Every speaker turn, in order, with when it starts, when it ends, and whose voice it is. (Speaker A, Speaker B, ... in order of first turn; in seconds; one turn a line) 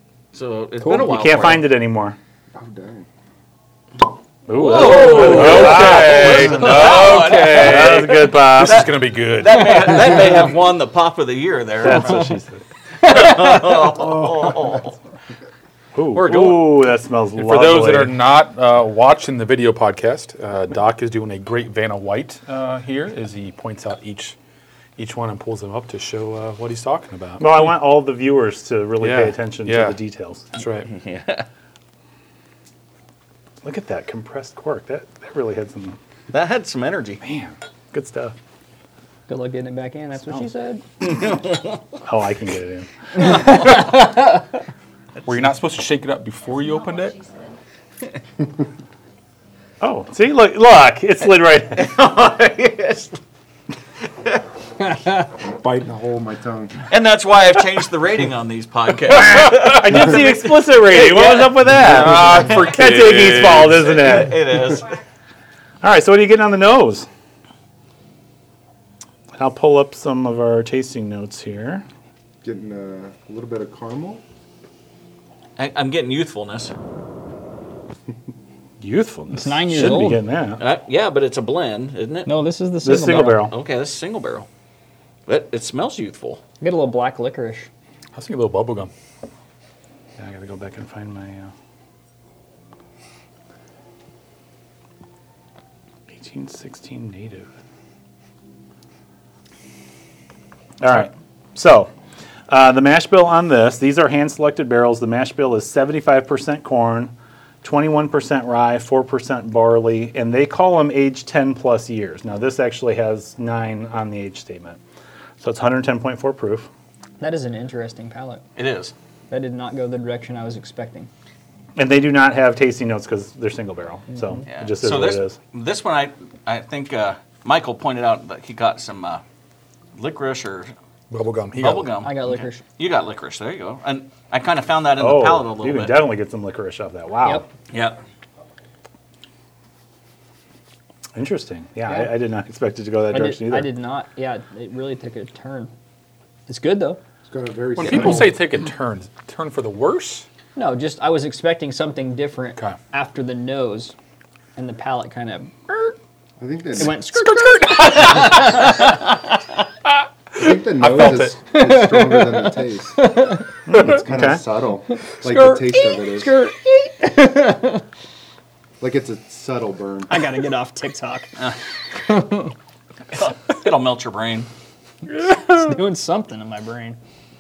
Speaker A: 0.3-1.6
Speaker B: 0.8-2.2
Speaker C: 2.5-3.1
Speaker B: 4.5-6.4
Speaker A: 4.5-12.2
Speaker D: 4.7-10.1
Speaker B: 7.5-8.9
Speaker B: 11.8-12.6
Speaker A: 13.0-15.0
Speaker E: 13.1-13.6
Speaker B: 15.9-18.2
Speaker A: 16.1-16.7
Speaker D: 17.4-24.4
Speaker D: 25.0-27.5
Speaker B: 27.4-30.5
Speaker D: 29.0-30.0
Speaker D: 30.5-30.9
Speaker A: 30.9-31.5
Speaker B: 33.6-36.0
Speaker A: 36.3-37.2
Speaker B: 37.2-38.4
Speaker E: 39.3-40.8
Speaker B: 42.0-43.3
Speaker E: 43.2-44.5
Speaker D: 45.2-47.4
Speaker B: 49.8-51.9
Speaker A: 51.7-53.2
Speaker E: 54.8-55.3
Speaker C: 55.4-56.8
Speaker A: 56.9-65.0
Speaker D: 59.4-59.7
Speaker B: 59.5-64.4
Speaker D: 61.8-63.7
Speaker B: 65.8-67.1
Speaker B: 69.3-71.9
Speaker C: 72.4-74.2
Speaker A: 75.6-76.7
Speaker B: 78.8-80.6
Speaker E: 79.3-80.2
Speaker A: 80.6-82.3
Speaker E: 82.3-83.5
Speaker B: 82.8-83.5
Speaker A: 83.5-84.5
Speaker A: 85.3-86.4
Speaker E: 86.6-87.7
Speaker D: 88.2-88.9
Speaker B: 90.2-91.5
Speaker B: 96.1-97.5
Speaker B: 100.8-101.9
Speaker B: 102.5-114.8
Speaker B: 115.4-116.7
Speaker E: 117.2-118.4
Speaker A: 118.6-118.9
Speaker E: 119.3-121.1
Speaker B: 121.8-125.4
Speaker E: 124.1-124.4
Speaker A: 124.5-129.2
Speaker A: 130.0-130.7
Speaker D: 131.1-131.9
Speaker A: 131.6-136.0
Speaker E: 132.0-132.6
Speaker B: 135.0-137.5
Speaker A: 137.7-138.0
Speaker B: 141.2-143.7
Speaker E: 141.9-142.1
Speaker E: 143.1-145.7
Speaker E: 146.5-147.0
Speaker C: 147.3-148.4
Speaker D: 147.8-150.3
Speaker E: 147.8-148.3
Speaker E: 150.6-153.9
Speaker E: 154.6-156.0
Speaker C: 156.4-157.0
Speaker E: 156.8-159.7
Speaker D: 156.8-158.8
Speaker C: 160.4-163.1
Speaker D: 160.8-161.3
Speaker E: 161.1-163.5
Speaker B: 163.7-164.4
Speaker C: 163.7-166.3
Speaker E: 164.9-167.8
Speaker C: 168.8-170.2
Speaker E: 170.1-172.6
Speaker A: 173.1-174.5
Speaker E: 175.1-177.0